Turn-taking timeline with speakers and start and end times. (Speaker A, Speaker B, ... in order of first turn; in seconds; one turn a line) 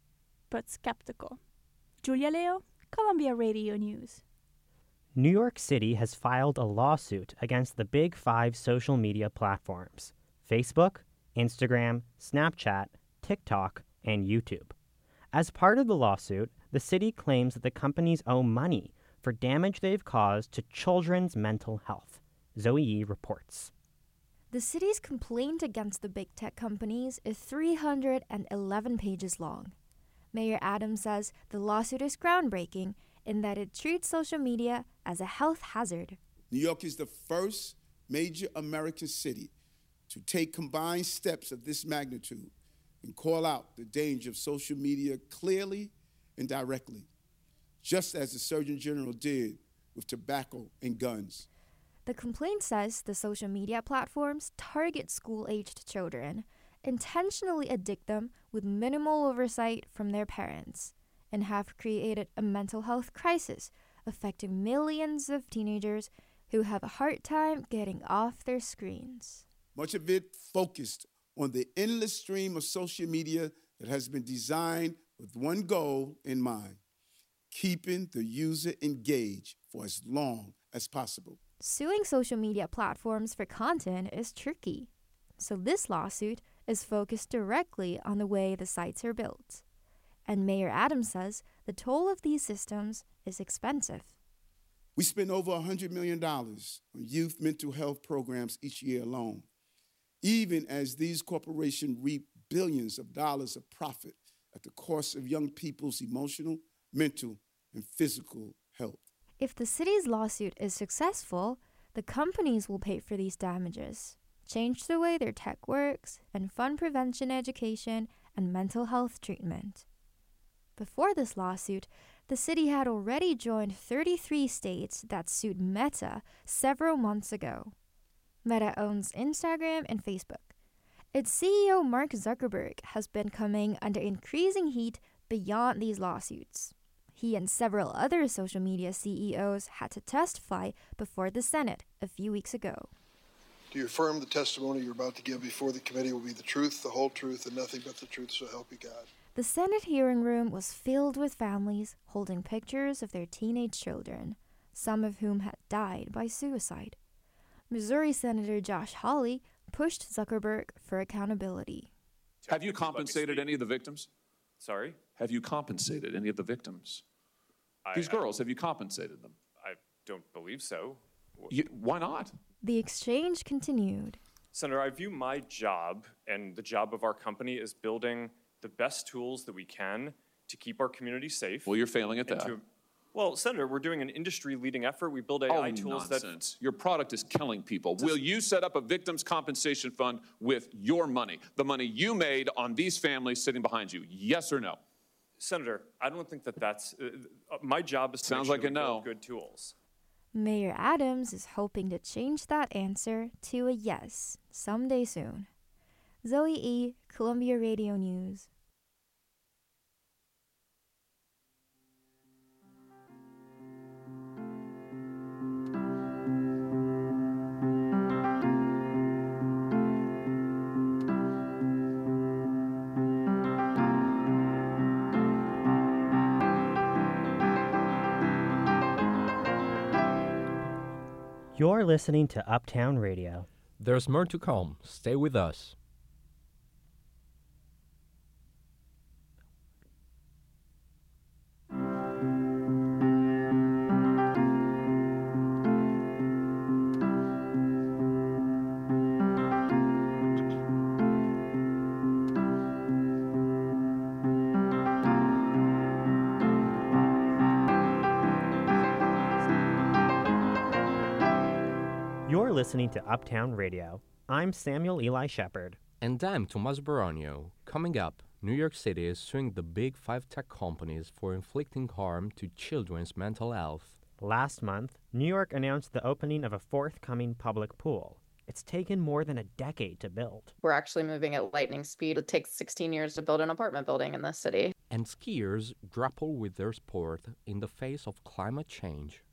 Speaker A: 0.5-1.4
Speaker A: 2.0-4.2
Speaker B: 5.1-14.7
Speaker B: 15.3-23.7
Speaker C: 24.5-29.7
Speaker C: 30.3-36.2
Speaker D: 36.5-39.5
Speaker D: 40.1-42.5
Speaker D: 43.0-47.1
Speaker D: 47.8-51.5
Speaker C: 52.0-69.5
Speaker D: 69.7-76.8
Speaker D: 77.5-81.4
Speaker C: 81.6-89.6
Speaker C: 90.2-94.2
Speaker D: 95.0-99.5
Speaker D: 100.2-109.0
Speaker C: 109.4-119.8
Speaker C: 120.8-127.7
Speaker C: 128.4-130.5
Speaker C: 131.1-142.9
Speaker E: 143.7-149.1
Speaker C: 149.3-157.0
Speaker C: 157.7-161.9
Speaker F: 162.4-163.5
Speaker G: 162.5-164.1
Speaker F: 164.6-165.1
Speaker G: 165.2-167.0
Speaker F: 167.8-168.3
Speaker G: 167.9-169.4
Speaker F: 169.5-171.6
Speaker G: 171.5-172.3
Speaker C: 172.6-174.2
Speaker F: 174.5-181.7
Speaker G: 181.6-182.5
Speaker F: 182.2-182.6
Speaker F: 183.1-186.3
Speaker G: 185.5-194.8
Speaker F: 195.4-199.7
Speaker G: 198.2-199.1
Speaker C: 200.3-205.5
Speaker C: 206.2-208.5
Speaker B: 231.5-233.4
Speaker H: 233.8-235.8
Speaker B: 262.2-265.8
Speaker H: 266.0-274.0
Speaker B: 274.2-280.5
Speaker I: 280.6-284.7
Speaker H: 284.9-289.2